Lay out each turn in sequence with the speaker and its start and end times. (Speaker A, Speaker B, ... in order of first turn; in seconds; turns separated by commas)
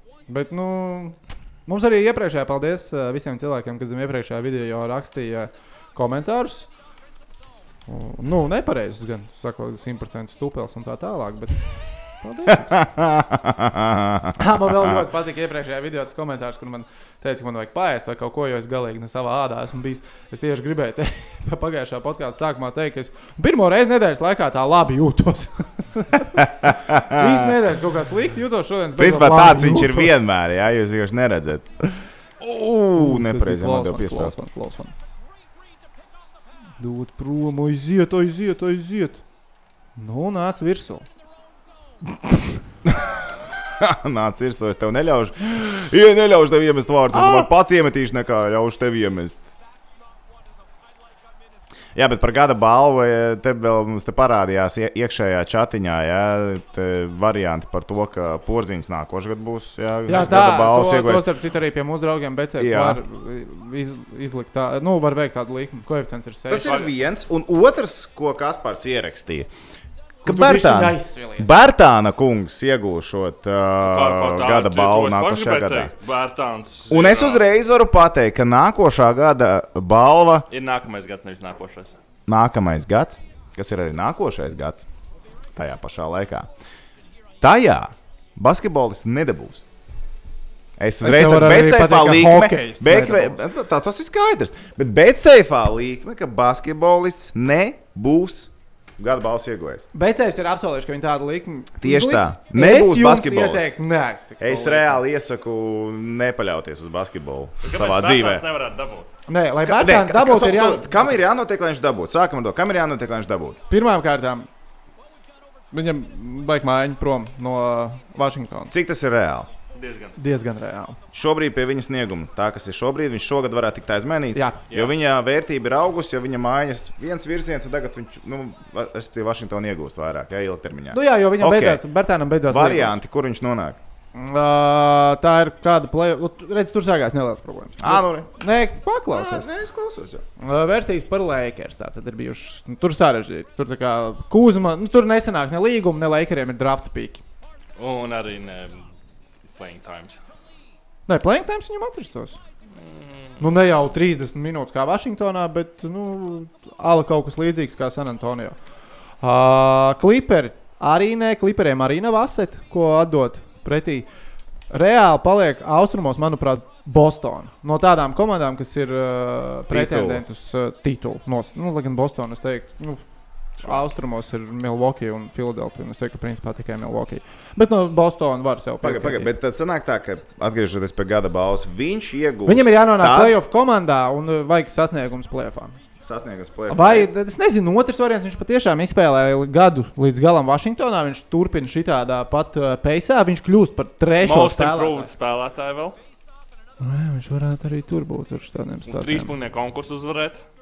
Speaker A: 0.3-6.7, Speaker A: 7.9-12.8, Speaker B: 12.6-15.0, Speaker A: 14.3-30.2, Speaker B: 26.4-27.6, Speaker B: 28.9-34.3, Speaker A: 32.9-34.9, Speaker A: 36.8-39.2, Speaker A: 40.0-41.0, Speaker B: 42.8-49.5, Speaker C: 47.1-47.5, Speaker B: 51.9-61.3, Speaker A: 60.1-66.8, Speaker B: 62.6-63.0, Speaker B: 66.5-69.5, Speaker B: 70.2-75.9, Speaker A: 70.2-71.5, Speaker C: 73.8-77.4, Speaker B: 76.9-80.5, Speaker C: 80.5-82.0, Speaker B: 82.3-84.8, Speaker B: 85.5-86.5, Speaker B: 87.4-89.6, Speaker B: 90.8-99.9, Speaker A: 91.0-93.4, Speaker A: 99.9-105.0, Speaker B: 101.8-103.7, Speaker B: 104.4-108.4, Speaker C: 107.6-109.1, Speaker A: 109.3-111.2, Speaker B: 109.6-113.6, Speaker A: 113.7-114.5, Speaker A: 115.7-118.7, Speaker B: 118.7-119.5, Speaker C: 119.7-120.2, Speaker A: 120.2-121.0, Speaker B: 121.1-131.8, Speaker A: 124.3-124.6, Speaker A: 130.9-133.0, Speaker B: 132.5-133.8, Speaker A: 134.1-139.5, Speaker B: 137.8-138.3, Speaker B: 139.1-140.2, Speaker A: 140.4-147.2, Speaker C: 147.8-148.9, Speaker C: 149.5-150.2, Speaker A: 151.1-152.4, Speaker C: 152.7-153.4, Speaker A: 153.4-158.6, Speaker A: 159.2-164.1, Speaker A: 164.7-173.0, Speaker B: 169.7-170.2, Speaker A: 173.6-179.3, Speaker B: 178.8-183.4, Speaker A: 182.4-185.8, Speaker B: 186.0-187.1, Speaker A: 186.7-195.1, Speaker C: 194.2-196.0, Speaker A: 196.8-199.3, Speaker C: 198.9-200.4